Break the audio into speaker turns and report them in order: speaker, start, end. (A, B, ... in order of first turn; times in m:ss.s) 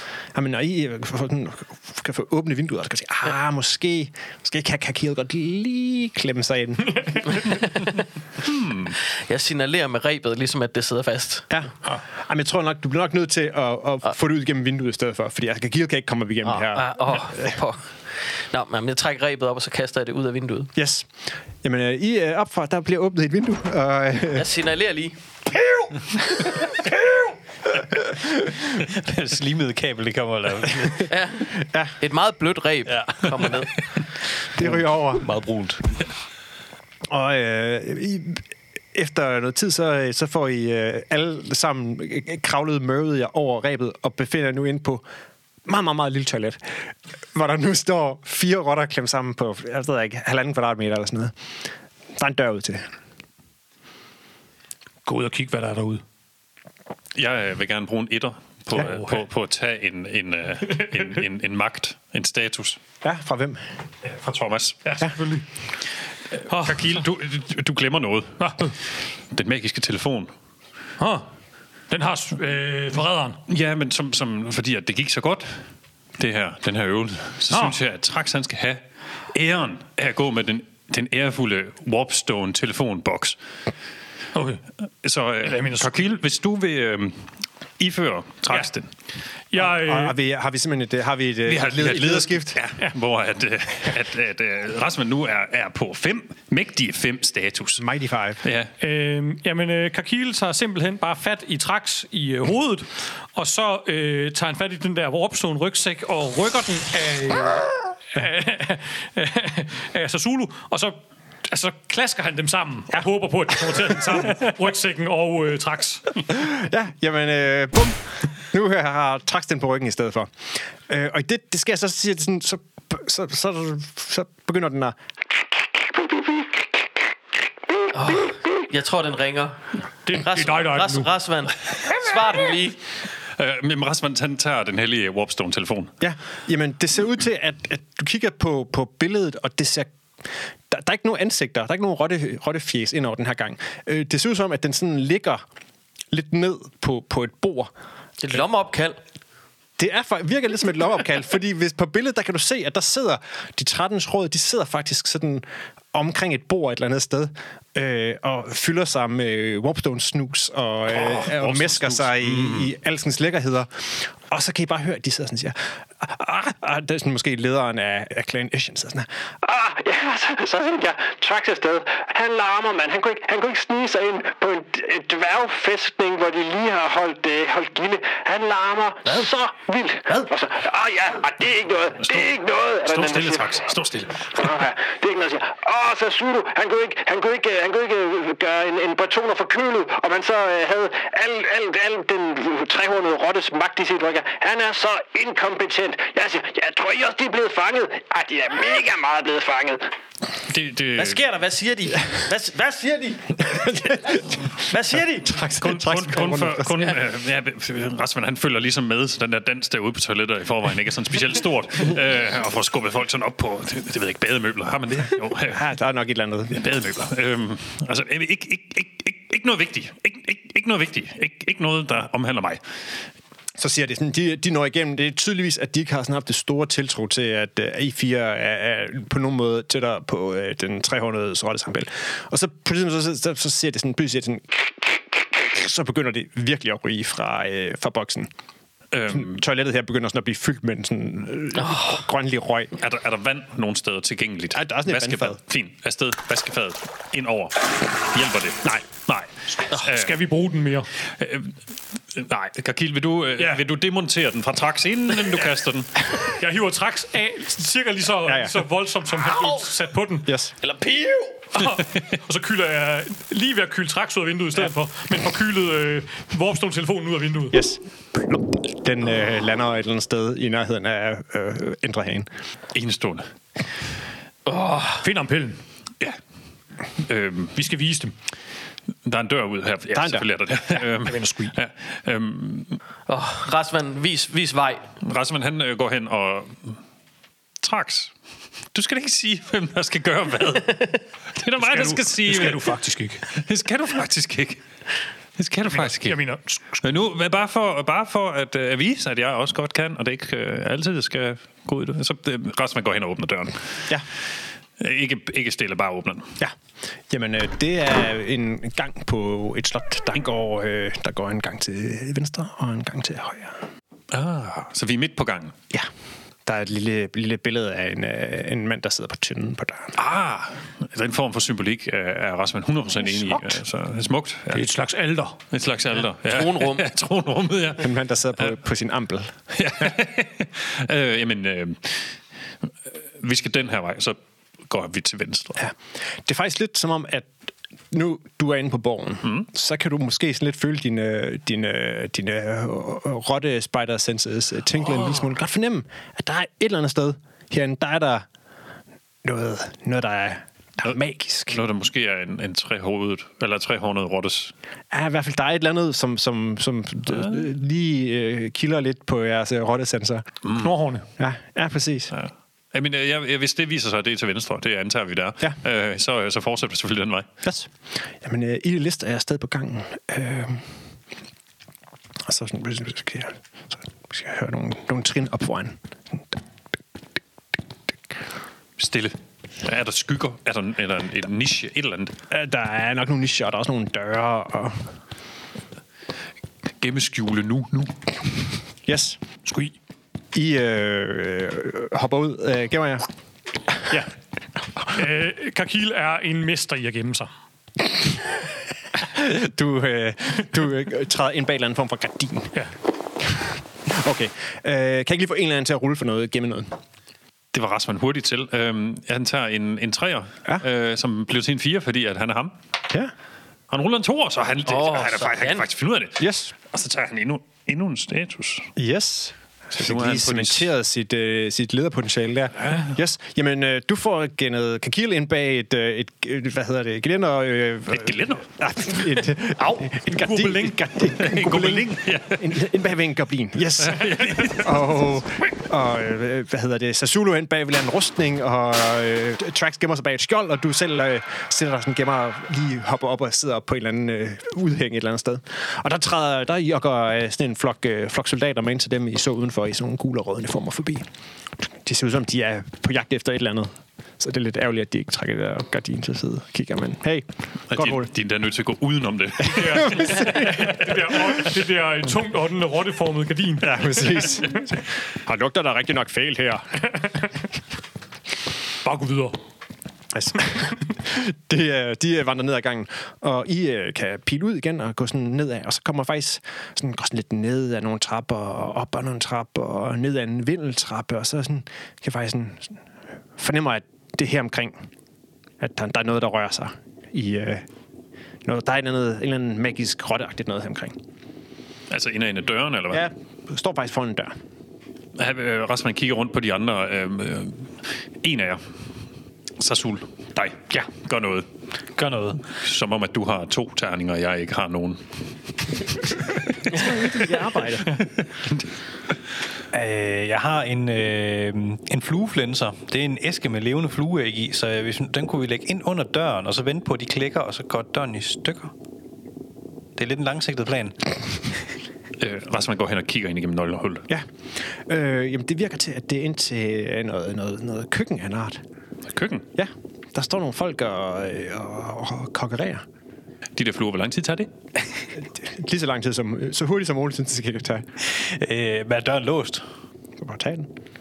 0:00.3-0:07.5 A
0:07.5-0:07.9 B
0:08.4-0:09.0 C
0:09.3-0:11.5 B
0:11.5-0:17.5 A
0:16.5-0:20.7 B
0:20.8-0:21.1 A
0:21.6-0:24.5 A
0:24.3-0:25.2 B
0:25.6-0:27.0 A
0:27.9-0:28.3 A
0:28.6-0:31.1 D
0:31.1-0:33.7 B
0:31.5-0:31.9 A
0:32.9-0:33.7 D
0:34.6-0:35.3 A
0:34.6-0:36.0 D
0:37.1-0:38.4 A
0:38.9-0:45.0 A
0:45.7-0:46.8 A
0:47.3-0:51.4 A
0:52.2-0:52.9 A
0:55.1-0:56.0 E
0:57.2-1:02.8 C
0:58.8-0:59.2 E
1:03.0-1:03.6 A
1:04.0-1:04.8 C
1:04.8-1:05.4 E
1:06.4-1:08.8 C
1:06.5-1:07.0 E
1:08.4-1:08.7 E
1:09.3-1:10.3 C
1:11.0-1:11.3 E
1:11.9-1:13.4 E
1:13.5-1:15.6 C
1:16.2-1:23.4 C
1:17.5-1:17.8 E
1:24.3-1:24.6 E
1:25.0-1:28.9 C
1:25.4-1:26.0 E
1:29.5-1:30.2 E
1:29.6-1:32.6 A
1:31.5-1:37.8 C
1:37.8-1:38.4 A
1:38.4-1:38.7 C
1:38.8-1:56.1 E
1:56.3-2:05.0 A
2:07.9-2:12.8 B
2:10.1-2:11.2 E
2:13.4-2:15.9 C
2:16.0-2:19.9 A
2:20.7-2:25.4 A
2:26.1-2:27.7 A
2:28.2-2:29.0 B
2:29.8-2:49.1 A
2:40.9-2:42.7 C
2:49.4-3:03.4 F
2:59.1-2:59.3 B
3:01.9-3:04.6 C
3:04.5-3:19.9 F
3:20.5-3:21.2 C
3:21.0-3:23.7 B
3:23.4-3:26.9 A
3:24.6-3:25.3 B
3:25.6-3:35.7 C
3:35.5-3:36.6 A
3:36.5-3:42.6 C
3:43.6-3:54.7 A
3:55.3-3:58.3 A
3:58.9-3:59.4 C
3:59.1-4:02.8 A
4:01.6-4:02.0 B
4:02.8-4:10.2 C
4:04.5-4:05.4 A
4:09.6-4:10.9 E
4:11.1-4:11.5 C
4:12.1-4:16.0 C
4:16.3-4:20.3 E
4:18.2-4:18.6 A
4:19.3-4:19.7 B
4:20.3-4:20.5 A
4:20.6-4:21.5 B
4:21.6-4:27.6 E
4:27.5-4:32.3 A
4:32.7-4:33.2 C
4:34.5-4:35.0 B
4:35.0-4:35.6 E
4:37.0-4:37.6 C
4:37.6-4:38.1 E
4:39.0-4:42.8 C
4:39.9-4:40.3 A
4:40.9-4:41.6 E
4:43.1-4:44.9 B
4:45.0-4:46.8 C
4:47.6-4:48.1 C
4:48.7-4:52.8 C
4:51.6-4:53.3 E
4:53.3-4:54.6 C
4:55.4-4:56.2 C
4:55.6-4:56.8 E
4:56.8-5:03.6 C
5:04.8-5:06.3 C
5:07.1-5:13.6 A
5:14.1-5:15.6 C
5:16.5-5:20.0 A
5:20.0-5:24.7 C
5:23.2-5:23.5 A
5:24.5-5:25.4 E
5:25.5-5:27.9 C
5:26.2-5:26.9 B
5:27.8-5:29.3 A
5:29.6-5:32.1 C
5:32.9-5:35.6 C
5:35.6-5:37.3 A
5:37.9-5:48.3 A
5:49.2-5:51.6 A
5:51.5-5:54.5 C
5:54.9-6:00.3 A
6:00.6-6:01.1 E
6:01.2-6:02.1 A
6:02.1-6:07.3 C
6:07.4-6:10.7 A
6:12.2-6:16.4 A
6:18.8-6:22.1 C
6:22.3-6:24.9 A
6:26.8-6:28.0 C
6:28.9-6:29.2 A
6:29.5-6:29.8 E
6:30.3-6:33.1 A
6:33.7-6:34.1 A
6:34.9-6:37.3 E
6:37.9-6:38.4 A
6:39.0-6:42.6 A
6:43.2-6:46.8 A
6:47.5-6:52.6 C
6:53.7-6:58.7 C
6:54.7-6:55.6 B
6:56.2-6:56.5 A
6:58.8-7:31.1 A
6:59.8-7:00.7 C
7:07.9-7:08.5 C
7:09.9-7:10.5 E
7:11.2-7:12.6 C
7:13.8-7:15.1 C
7:31.7-7:38.1 A
7:37.7-7:40.7 C
7:39.5-7:44.5 E
7:40.0-7:40.6 A
7:43.6-7:46.9 A
7:48.8-7:49.4 E
7:50.1-8:02.8 A
8:03.4-8:04.9 A
8:05.6-8:07.7 A
8:08.4-8:11.0 A
8:11.9-8:13.1 C
8:12.9-8:14.3 A
8:15.2-8:18.6 C
8:19.6-8:21.5 C
8:22.0-8:22.4 D
8:22.5-8:25.0 C
8:26.0-8:28.7 C
8:26.7-8:28.0 A
8:29.7-8:38.7 D
8:40.0-8:41.1 D
8:42.2-8:44.1 C
8:44.1-8:48.6 A
8:49.1-8:49.5 C
8:49.6-8:52.8 A
8:53.6-8:54.5 C
8:55.2-8:57.8 A
8:58.0-8:59.6 D
9:00.2-9:00.7 A